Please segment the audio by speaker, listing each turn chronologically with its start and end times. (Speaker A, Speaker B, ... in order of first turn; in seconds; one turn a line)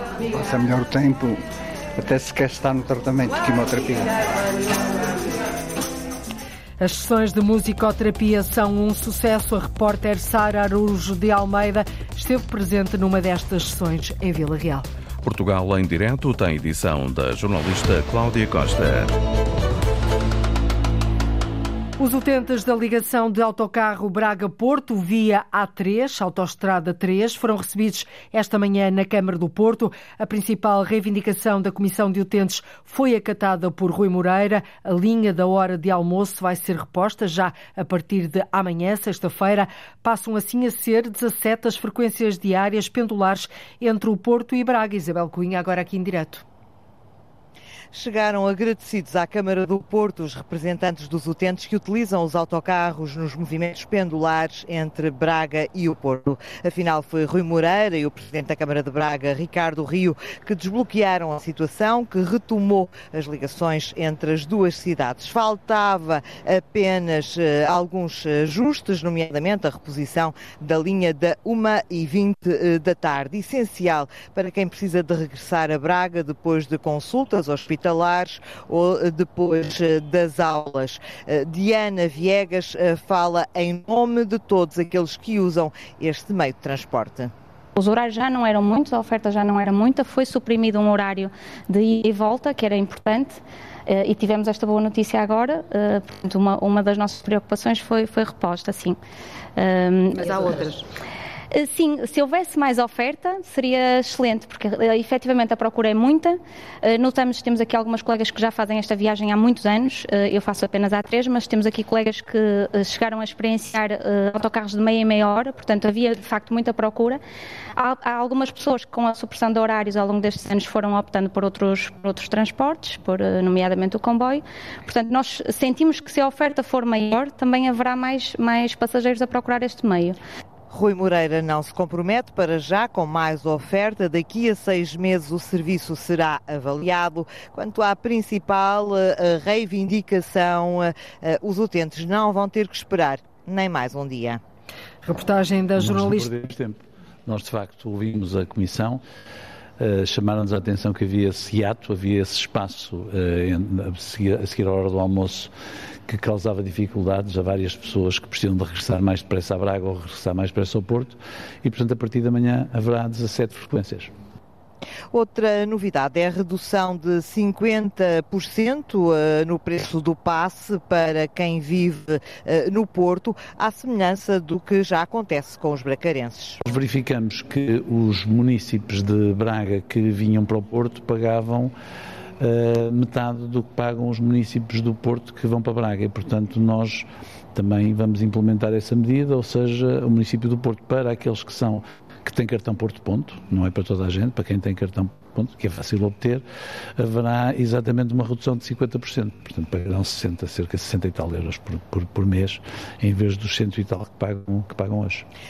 Speaker A: 0.3-1.4
Speaker A: 2.0-4.2
Speaker B: 6.8-14.9
Speaker C: 15.2-19.1
Speaker B: 22.0-46.4
Speaker D: 47.9-87.3
Speaker E: 87.8-99.0
Speaker E: 99.6-100.8
Speaker E: 101.5-117.2
Speaker E: 117.8-130.2
Speaker D: 130.7-144.4
Speaker B: 145.1-146.3
Speaker F: 145.8-149.0
Speaker F: 149.8-155.5
Speaker F: 156.1-164.1
Speaker D: 165.1-176.6
Speaker F: 176.7-181.7
Speaker F: 182.4-196.4
Speaker F: 197.0-205.2